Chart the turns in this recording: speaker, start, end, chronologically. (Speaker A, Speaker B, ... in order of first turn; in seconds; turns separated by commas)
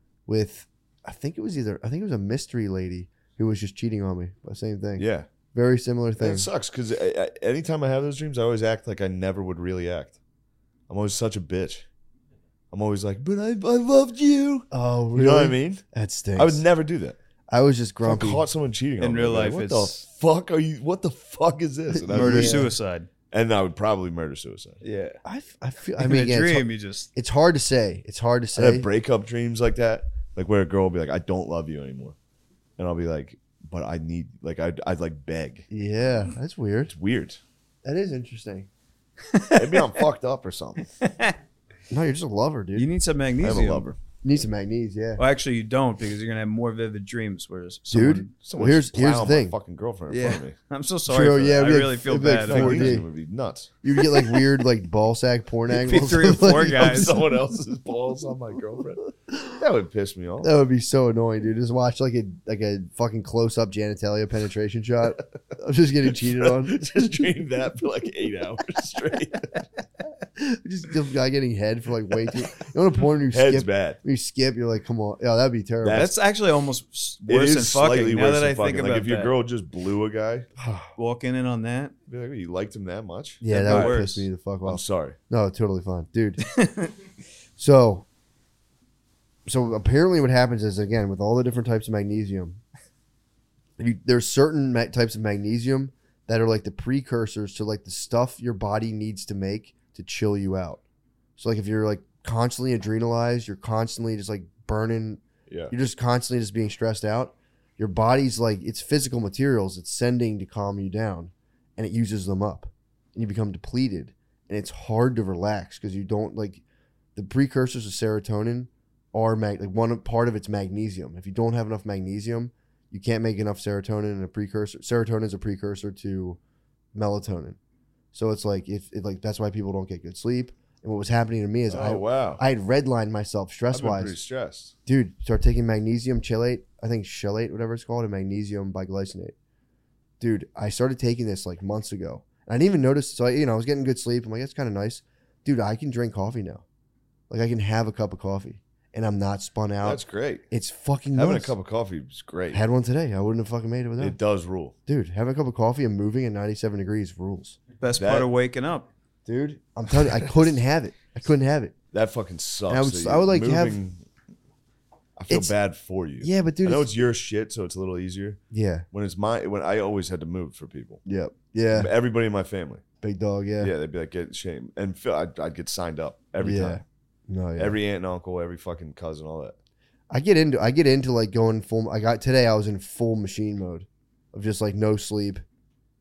Speaker A: 0.3-6.5, Speaker B: 5.0-5.3, Speaker B: 6.2-10.2, Speaker B: 10.9-11.9, Speaker B: 12.7-15.8, Speaker A: 14.7-16.6, Speaker B: 16.4-17.2, Speaker A: 17.5-18.4, Speaker B: 18.0-22.7, Speaker C: 19.0-20.0, Speaker A: 21.9-22.7, Speaker C: 22.1-23.1, Speaker B: 23.3-24.8, Speaker C: 24.8-25.2, Speaker A: 25.2-28.9, Speaker C: 26.0-27.1, Speaker B: 28.6-32.1, Speaker B: 32.8-35.7, Speaker A: 35.7-36.9, Speaker B: 36.9-37.4, Speaker A: 37.8-38.7, Speaker C: 39.3-39.9, Speaker B: 39.5-40.9, Speaker C: 41.0-41.4, Speaker A: 41.9-42.9, Speaker C: 42.8-43.9, Speaker B: 43.4-44.0, Speaker A: 44.2-45.2, Speaker C: 45.2-48.3, Speaker A: 47.9-49.5, Speaker B: 48.4-50.6, Speaker C: 50.1-53.0, Speaker A: 51.1-53.1, Speaker B: 52.4-53.7, Speaker A: 53.8-57.2, Speaker C: 55.7-57.1, Speaker B: 56.4-60.5, Speaker A: 60.4-67.1, Speaker B: 66.4-69.6, Speaker A: 70.4-76.1, Speaker B: 73.3-74.0, Speaker B: 75.8-76.1, Speaker C: 75.9-79.3, Speaker B: 77.3-80.5, Speaker A: 80.6-80.9, Speaker C: 81.0-81.9, Speaker B: 82.1-84.0, Speaker A: 83.4-86.4, Speaker C: 83.5-84.3, Speaker B: 84.7-85.2, Speaker C: 86.5-86.9, Speaker A: 87.6-88.1, Speaker A: 89.5-92.6, Speaker A: 93.8-100.8, Speaker A: 101.4-116.6, Speaker B: 105.5-105.7, Speaker A: 117.2-126.4, Speaker A: 126.9-127.6, Speaker A: 128.1-134.2, Speaker B: 131.7-132.4, Speaker B: 133.7-134.7, Speaker A: 134.9-139.3, Speaker A: 140.2-146.6, Speaker A: 147.3-151.5, Speaker B: 149.8-150.5, Speaker B: 151.2-152.6, Speaker A: 152.5-154.2, Speaker B: 154.0-154.8, Speaker A: 154.9-157.6, Speaker C: 157.8-158.9, Speaker B: 157.9-158.3, Speaker A: 159.3-161.8, Speaker B: 161.9-164.0, Speaker A: 162.7-163.8, Speaker B: 165.2-168.4, Speaker A: 166.2-167.0, Speaker A: 168.5-168.9, Speaker B: 168.9-171.0, Speaker A: 171.1-171.9, Speaker B: 171.7-172.8, Speaker A: 173.0-173.7, Speaker B: 173.6-176.8, Speaker A: 176.4-177.8, Speaker B: 177.6-179.6, Speaker A: 180.1-185.4